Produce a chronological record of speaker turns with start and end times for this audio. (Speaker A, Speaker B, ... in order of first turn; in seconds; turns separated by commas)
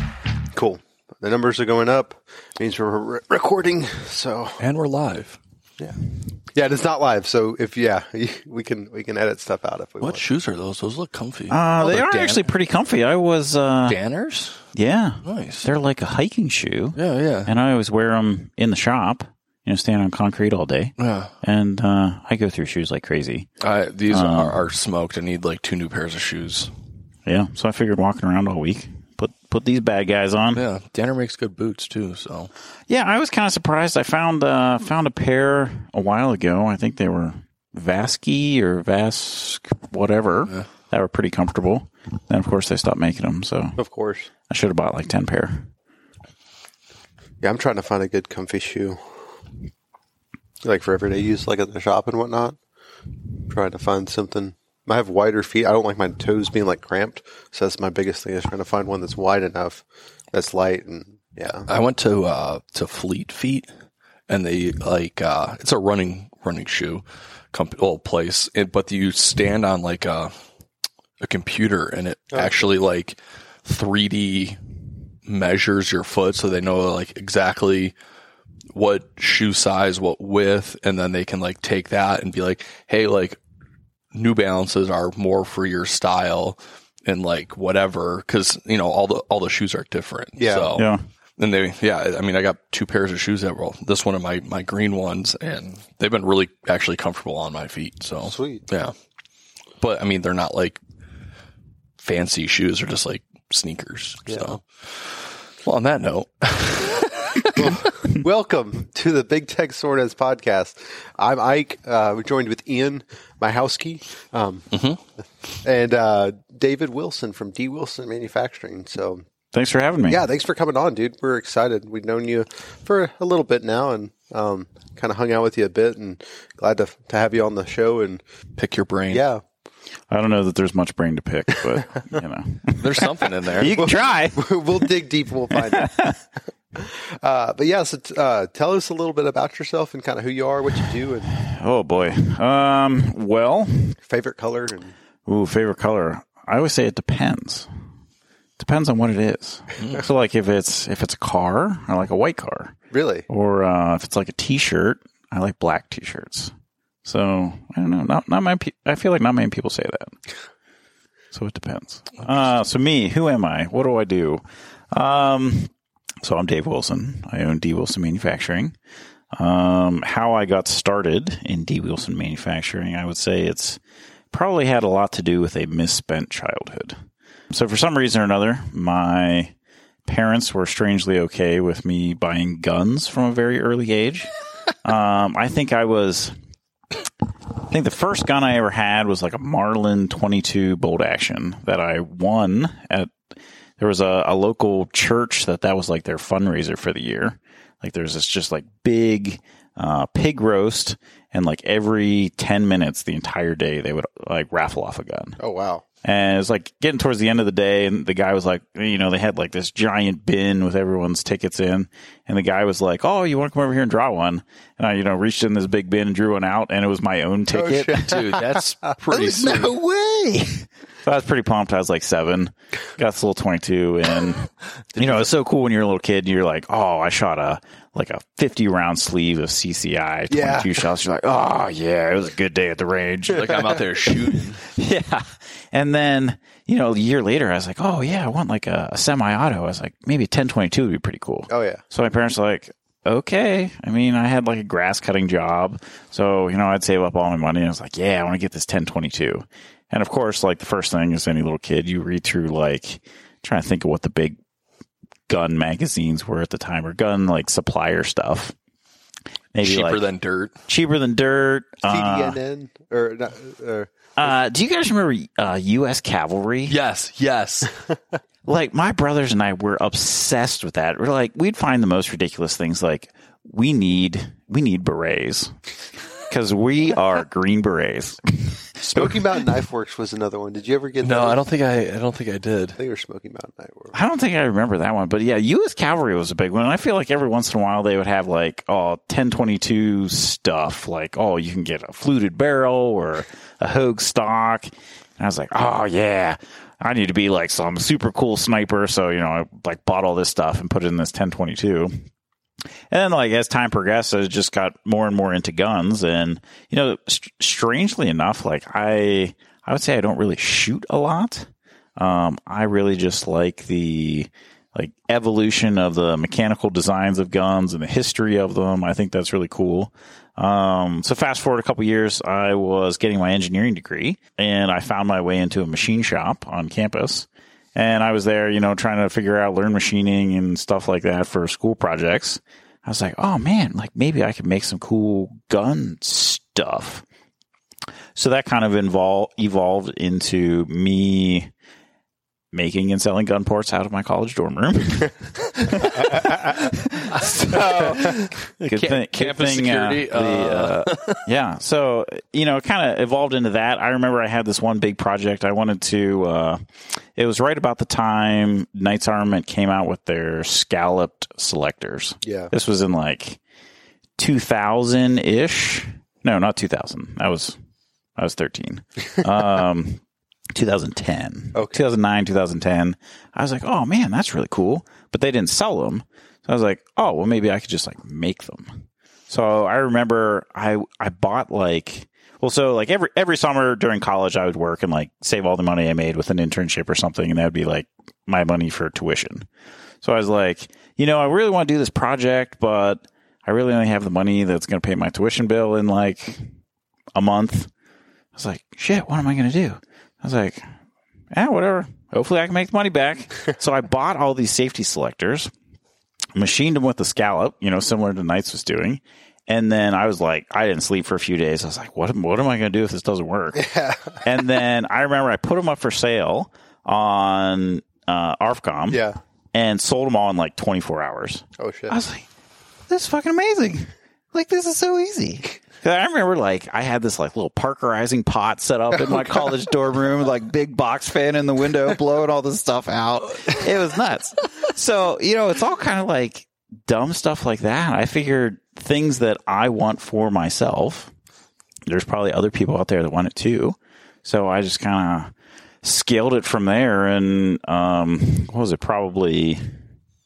Speaker A: 0.5-4.6, Speaker B: 4.6-5.4, Speaker A: 6.5-10.2, Speaker B: 10.0-12.4, Speaker C: 11.5-14.0, Speaker B: 13.9-14.6, Speaker C: 14.7-23.5, Speaker B: 15.2-15.7, Speaker B: 16.9-17.5, Speaker B: 21.0-21.3, Speaker B: 23.6-26.7, Speaker C: 24.1-24.6, Speaker C: 27.2-30.6, Speaker B: 30.5-32.5, Speaker C: 32.9-43.8, Speaker A: 43.8-44.3, Speaker C: 44.5-45.7, Speaker A: 47.4-49.0, Speaker A: 50.6-52.6, Speaker A: 53.5-61.7, Speaker B: 61.7-63.7, Speaker B: 64.3-70.3, Speaker B: 71.2-74.6, Speaker B: 75.3-77.9, Speaker B: 78.7-83.4, Speaker B: 84.1-90.8, Speaker A: 90.4-90.7, Speaker C: 90.7-91.0, Speaker B: 91.4-98.9, Speaker A: 98.2-98.6, Speaker B: 99.8-100.8, Speaker B: 102.0-107.8, Speaker A: 104.3-104.5, Speaker A: 107.5-114.7, Speaker B: 114.7-115.0, Speaker A: 115.6-119.2, Speaker C: 119.5-120.2, Speaker A: 120.1-128.2, Speaker B: 128.6-129.2, Speaker A: 129.1-129.4, Speaker C: 130.1-134.8, Speaker B: 132.8-133.8, Speaker A: 133.7-136.1, Speaker C: 135.5-136.1, Speaker A: 136.7-141.4, Speaker C: 141.3-144.0, Speaker A: 144.0-144.9, Speaker C: 145.3-147.7, Speaker C: 148.6-152.8, Speaker A: 152.9-153.3, Speaker C: 153.3-156.5, Speaker C: 157.0-160.1, Speaker C: 161.3-165.7, Speaker C: 166.2-168.7, Speaker C: 169.3-173.8, Speaker C: 174.3-177.0, Speaker C: 177.5-179.5, Speaker C: 180.1-184.3, Speaker C: 184.8-186.3, Speaker C: 187.7-193.1, Speaker C: 193.8-205.4, Speaker A: 205.4-205.8, Speaker C: 206.0-218.2, Speaker A: 217.5-218.5, Speaker B: 218.0-219.7, Speaker C: 219.1-254.4, Speaker B: 224.9-225.3, Speaker A: 230.3-230.8, Speaker B: 233.3-234.6, Speaker A: 241.5-241.8, Speaker C: 255.3-258.5, Speaker C: 259.5-260.0, Speaker B: 259.6-260.5, Speaker C: 260.7-262.4, Speaker A: 261.9-263.9, Speaker C: 264.2-266.8, Speaker B: 266.7-267.7, Speaker C: 268.4-275.5, Speaker C: 276.3-279.2, Speaker A: 278.8-281.4, Speaker B: 281.0-282.8, Speaker A: 282.8-283.9, Speaker C: 283.9-302.0, Speaker C: 302.9-337.0, Speaker C: 338.1-341.5, Speaker C: 342.5-356.6, Speaker B: 347.1-351.2, Speaker C: 357.1-363.4, Speaker A: 362.2-362.5, Speaker C: 364.2-367.6, Speaker C: 368.1-370.0, Speaker C: 370.5-389.4, Speaker A: 371.5-371.8, Speaker C: 390.0-396.5, Speaker C: 397.1-397.7, Speaker C: 398.3-400.6, Speaker C: 401.3-405.5, Speaker C: 406.3-413.7, Speaker A: 413.6-414.1, Speaker C: 414.2-419.0, Speaker A: 418.9-419.2, Speaker C: 419.5-422.2, Speaker A: 421.6-422.0, Speaker C: 422.9-441.1, Speaker C: 441.9-445.3, Speaker C: 445.8-449.6